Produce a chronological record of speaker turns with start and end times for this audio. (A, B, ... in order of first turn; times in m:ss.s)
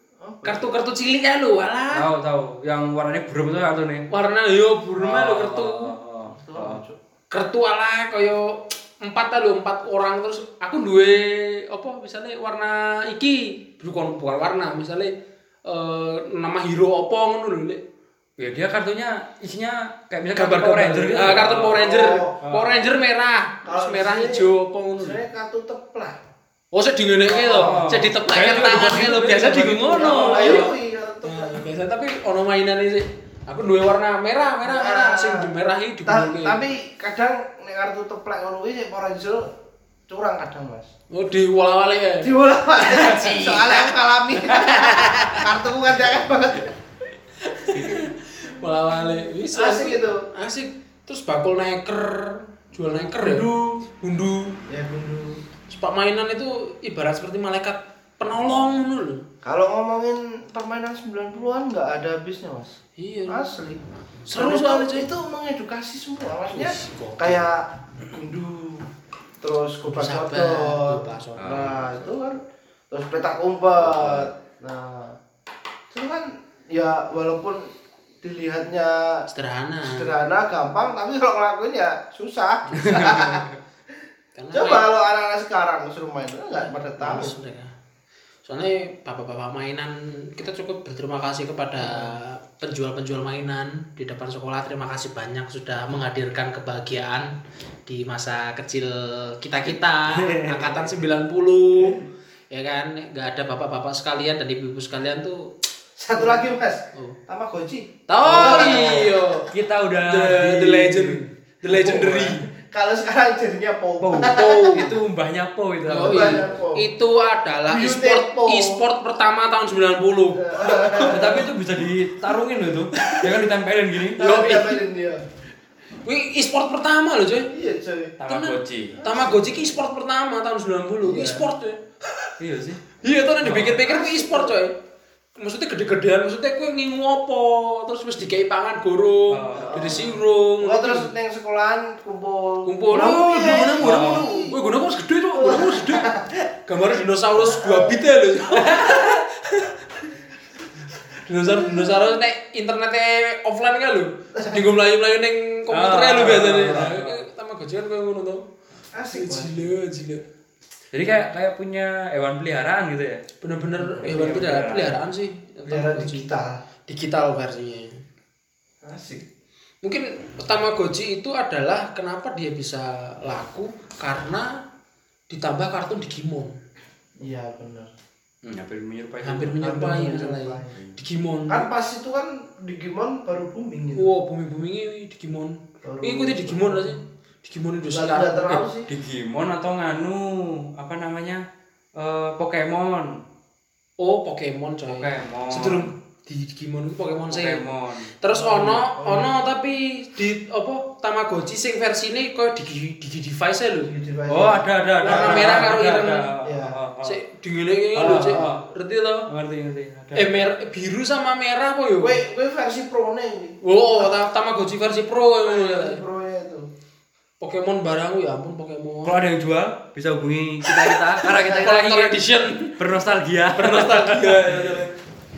0:00.2-0:00.7 A
0:00.4-0:02.1 B
0:01.9-0:04.1 C
0:04.1-0:05.9 B
0:05.0-0:06.8 C
0:06.4-0:07.0 A
0:07.3-0:15.1 B
0:15.6-0:17.8 B
0:18.4-0:21.9 C
0:20.3-0:25.2 B
0:21.7-0:22.4 A
0:22.4-0:22.9 C
0:23.6-0:26.2 A
0:26.7-0:30.7 B
0:27.3-0:27.8 A
0:27.5-0:30.7 C
0:29.8-0:31.6 A
0:31.2-0:36.6 B
0:34.6-0:35.5 A
0:36.0-0:39.5 A
0:40.1-0:40.9 A
0:41.1-0:42.3 B
0:42.2-0:46.7 A
0:42.9-0:43.9 B
0:44.5-0:45.4 B
0:47.4-0:54.6 B
0:49.5-0:50.2 A
0:53.2-0:53.6 C
0:54.7-0:55.4 A
0:55.7-0:59.2 B
0:59.4-1:02.8 A
1:03.0-1:03.4 B
1:03.3-1:03.8 A
1:04.3-1:05.1 B
1:04.3-1:08.9 A
1:06.5-1:07.5 B
1:09.4-1:12.4 A
1:09.8-1:12.1 B
1:11.4-1:11.8 C
1:12.9-1:15.2 A
1:13.8-1:14.3 C
1:15.9-1:17.7 A
1:18.2-1:19.2 A
1:19.3-1:20.1 B
1:19.8-1:23.5 A
1:22.7-1:23.6 C
1:22.8-1:23.2 B
1:24.4-1:24.9 B
1:24.5-1:27.3 A
1:27.0-1:27.7 B
1:28.4-1:37.3 B
1:31.8-1:32.2 A
1:37.8-1:45.5 B
1:40.1-1:41.0 C
1:46.0-1:49.2 A
1:46.1-1:46.4 B
1:48.1-1:49.5 B
1:48.2-1:52.4 C
1:50.0-1:52.4 B
1:52.7-1:54.9 A
1:54.0-1:56.5 C
1:54.2-1:54.9 B
1:55.9-2:01.4 B
1:56.0-1:56.9 A
1:57.7-1:58.8 A
2:00.3-2:01.4 A
2:01.0-2:04.4 C
2:03.0-2:03.2 B
2:04.2-2:05.2 A
2:04.2-2:04.8 B
2:06.0-2:07.5 B
2:07.5-2:08.2 A
2:08.2-2:09.0 C
2:08.2-2:12.3 B
2:09.0-2:09.3 A
2:11.0-2:11.4 A
2:12.4-2:12.8 C
2:13.0-2:14.8 B
2:13.4-2:13.8 C
2:13.6-2:14.6 A
2:15.4-2:21.1 B
2:19.3-2:20.1 C
2:19.5-2:24.6 A
2:22.6-2:26.1 B
2:23.8-2:24.3 C
2:25.3-2:26.5 A
2:26.6-2:30.1 B
2:27.4-2:28.0 A
2:31.1-2:38.5 B
2:35.7-2:37.2 C
2:38.9-2:39.7 A
2:39.1-2:40.2 B
2:40.9-2:43.2 C
2:43.4-2:46.3 B
2:43.9-2:45.0 C
2:45.6-2:46.6 A
2:46.9-2:47.9 B
2:48.8-2:49.2 A
2:49.8-2:54.5 B
2:55.3-2:56.5 B
2:57.2-2:57.9 A
2:58.4-2:59.9 C
2:59.2-3:01.7 B
2:59.6-3:00.7 A
3:01.5-3:04.1 A
3:04.0-3:08.6 B
3:05.8-3:06.9 A
3:07.9-3:08.9 A
3:08.8-3:11.4 C
3:11.9-3:13.2 C
3:14.0-3:17.6 B
3:14.8-3:15.9 C
3:17.3-3:18.1 C
3:18.2-3:23.9 B
3:18.3-3:19.3 A
3:23.9-3:25.7 A
3:24.3-3:27.2 C
3:25.0-3:26.3 B
3:26.4-3:26.8 A
3:27.0-3:29.3 B
3:28.0-3:28.6 C
3:28.0-3:28.5 A
3:29.3-3:30.3 C
3:30.1-3:32.2 B
3:32.0-3:34.1 A
3:33.6-3:36.0 B
3:35.4-3:36.7 A
3:37.4-3:39.2 B
3:39.0-3:42.2 C
3:40.6-3:42.8 B
3:41.4-3:41.8 A
3:42.8-3:44.8 C
3:43.5-3:44.9 B